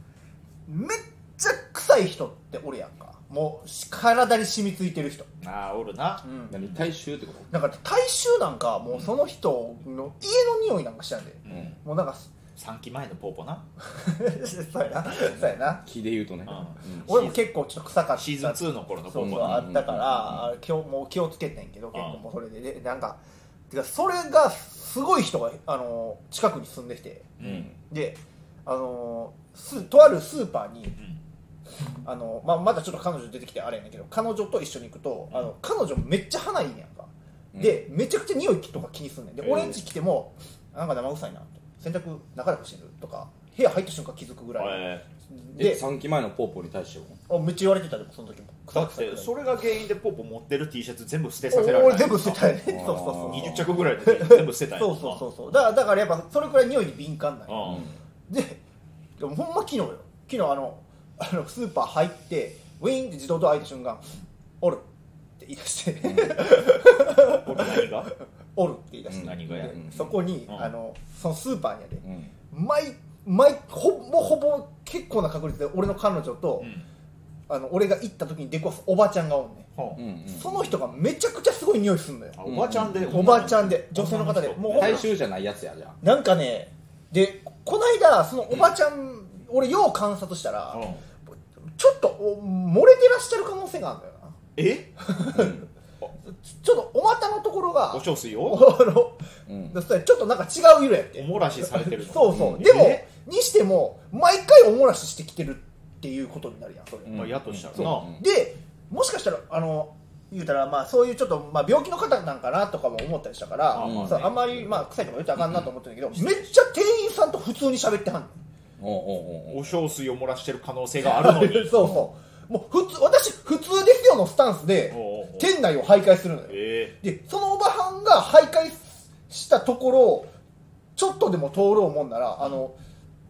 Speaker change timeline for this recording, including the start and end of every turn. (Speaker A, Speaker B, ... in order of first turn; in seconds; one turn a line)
Speaker A: 0.7-5.3
Speaker B: 5.4-6.2
Speaker A: 6.2-6.6
Speaker C: 6.5-7.5
Speaker A: 7.5-12.3
Speaker B: 11.4-11.8
Speaker B: 12.6-13.6
Speaker A: 13.9-15.8
Speaker C: 15.2-17.1
Speaker B: 16.5-17.4
Speaker A: 17.1-27.3
Speaker B: 18.1-19.6
Speaker C: 19.2-20.4
Speaker B: 21.9-22.2
Speaker B: 27.4-27.7
Speaker C: 27.4-27.7
Speaker A: 27.9-30.9
Speaker A: 32.0-45.8
Speaker C: 37.5-37.8
Speaker B: 39.4-39.8
Speaker B: 44.6-45.0
Speaker C: 45.6-47.2
Speaker A: 47.3-49.3
Speaker B: 48.7-52.5
Speaker A: 51.5-58.6
Speaker C: 52.6-53.7
Speaker B: 53.3-55.2
Speaker B: 57.5-57.9
Speaker C: 57.6-57.9
Speaker A: 59.2-64.8
Speaker A: 65.4-67.8
Speaker C: 66.0-66.5
Speaker B: 67.3-68.1
Speaker A: 68.5-76.7
Speaker B: 69.1-69.8
Speaker C: 69.1-70.1
Speaker C: 72.0-72.3
Speaker B: 76.6-76.8
Speaker A: 77.5-79.7
Speaker B: 79.8-80.0
Speaker C: 80.0-80.8
Speaker A: 80.3-82.4
Speaker B: 82.4-85.1
Speaker C: 82.4-83.6
Speaker A: 83.0-85.1
Speaker C: 84.7-86.0
Speaker A: 86.0-90.8
Speaker B: 90.7-91.0
Speaker A: 91.8-94.3
Speaker B: 94.5-94.9
Speaker A: 95.0-95.7
Speaker C: 95.3-95.6
Speaker A: 96.2-118.3
Speaker B: 97.9-98.8
Speaker C: 99.5-99.7
Speaker B: 101.2-103.0
Speaker C: 107.0-108.2
Speaker B: 107.1-108.1
Speaker B: 113.7-114.4
Speaker C: 113.8-114.6
Speaker B: 116.1-116.4
Speaker C: 118.8-119.7
Speaker B: 119.5-121.8
Speaker A: 121.0-130.3
Speaker B: 124.9-125.5
Speaker B: 126.5-126.9
Speaker A: 130.9-132.8